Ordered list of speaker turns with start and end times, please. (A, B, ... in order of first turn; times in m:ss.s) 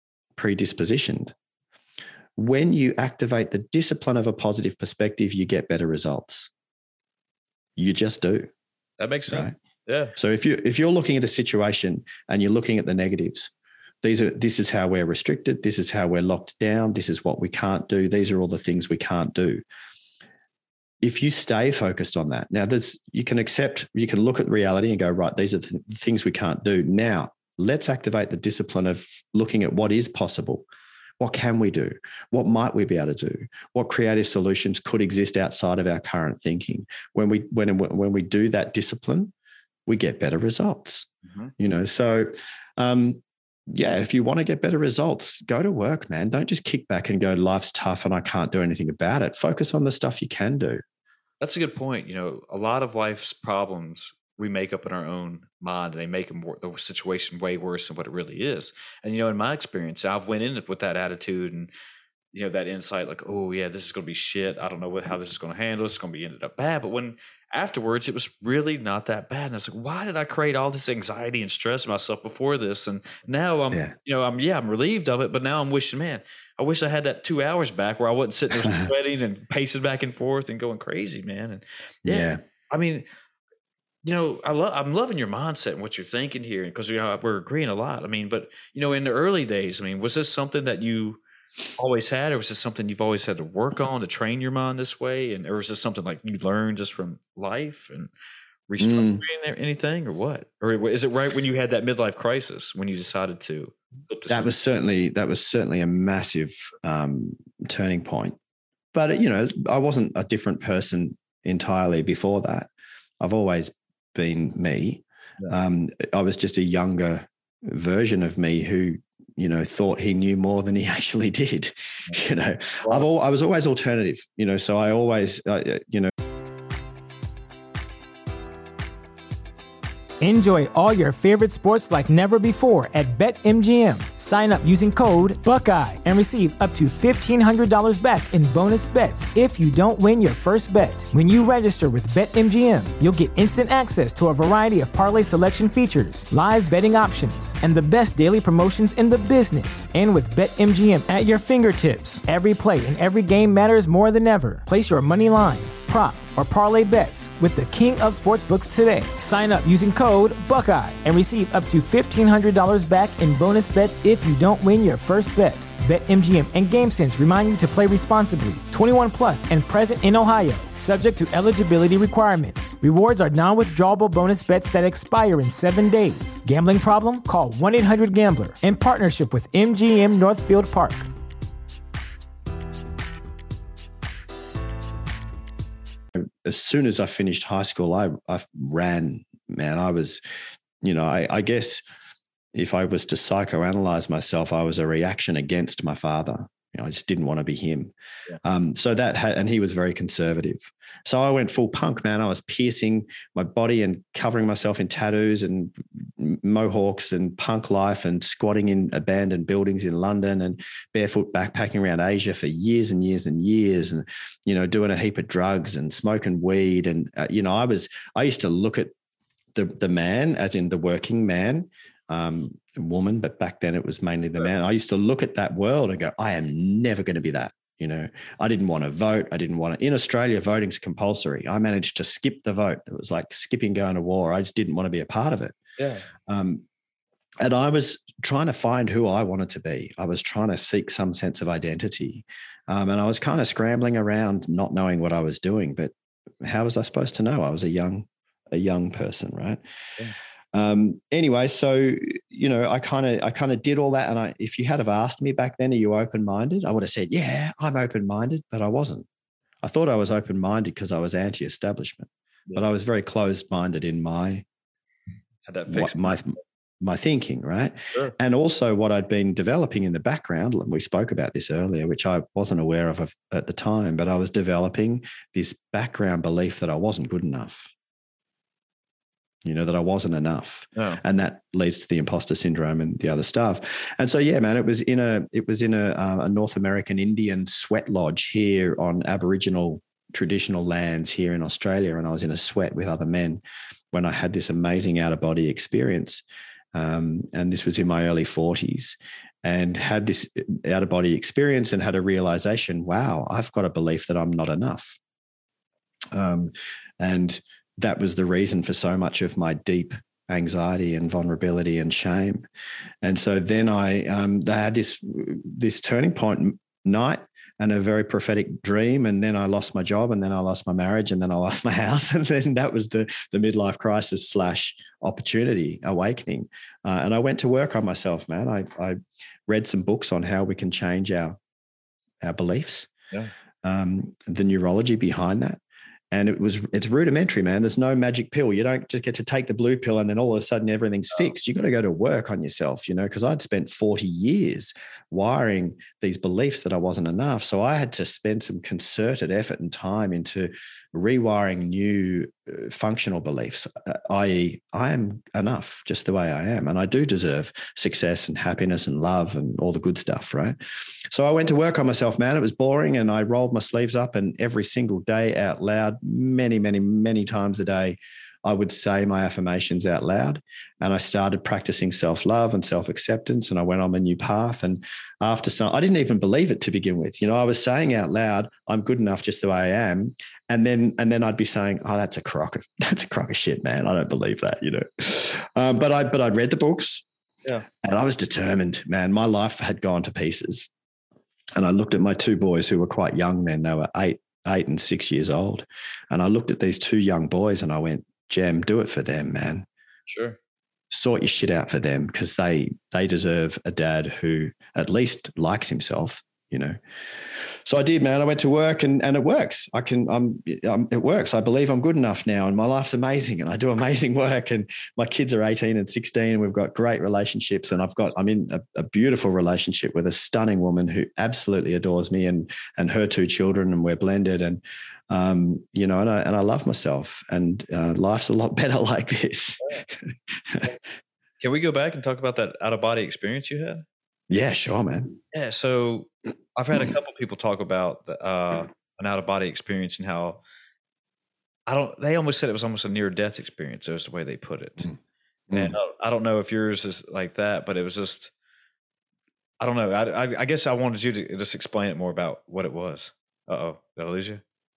0:00.4-0:01.3 A
0:02.4-0:06.5 A
0:07.8-0:08.5 A
0:09.0-0:10.2 B
0:09.3-0:09.5 A
0:10.2-0:19.6 A
0:21.0-0:30.7 A
0:31.2-0:39.3 A
0:39.9-0:50.8 A
0:41.2-0:41.5 B
0:51.4-1:01.7 B
1:02.3-1:23.0 B
1:18.6-1:18.9 A
1:22.0-1:22.4 A
1:24.0-1:31.2 B
1:31.8-1:38.1 B
1:38.7-1:44.5 B
1:38.8-1:39.2 A
1:44.3-1:48.4 A
1:48.9-2:06.1 A
2:10.2-3:01.1 C
3:06.1-3:10.2 A
3:10.8-3:11.8 A
3:12.5-3:17.9 A
3:18.4-3:38.9 A
3:39.5-3:55.6 A
3:55.8-3:56.1 B
3:56.3-3:56.6 A
3:57.4-4:09.6 A
4:10.5-4:19.1 A
4:19.6-4:24.4 A
4:25.5-4:26.2 B
4:25.7-4:37.7 A
4:39.4-5:05.0 A
5:06.1-5:12.5 A
5:13.0-5:31.4 A
5:32.2-5:32.9 A
5:33.6-5:35.6 A
5:36.1-6:00.6 A
6:01.1-6:27.0 A
6:27.8-6:30.7 A
6:31.6-6:39.7 A
6:40.1-6:40.4 B
6:40.9-6:46.8 A
6:47.6-7:10.8 A
7:11.4-7:13.8 B
7:14.3-7:15.2 A
7:15.3-7:20.4 B
7:21.7-7:24.9 B
7:25.5-7:25.8 A
7:25.5-7:28.3 B
7:29.6-7:34.4 B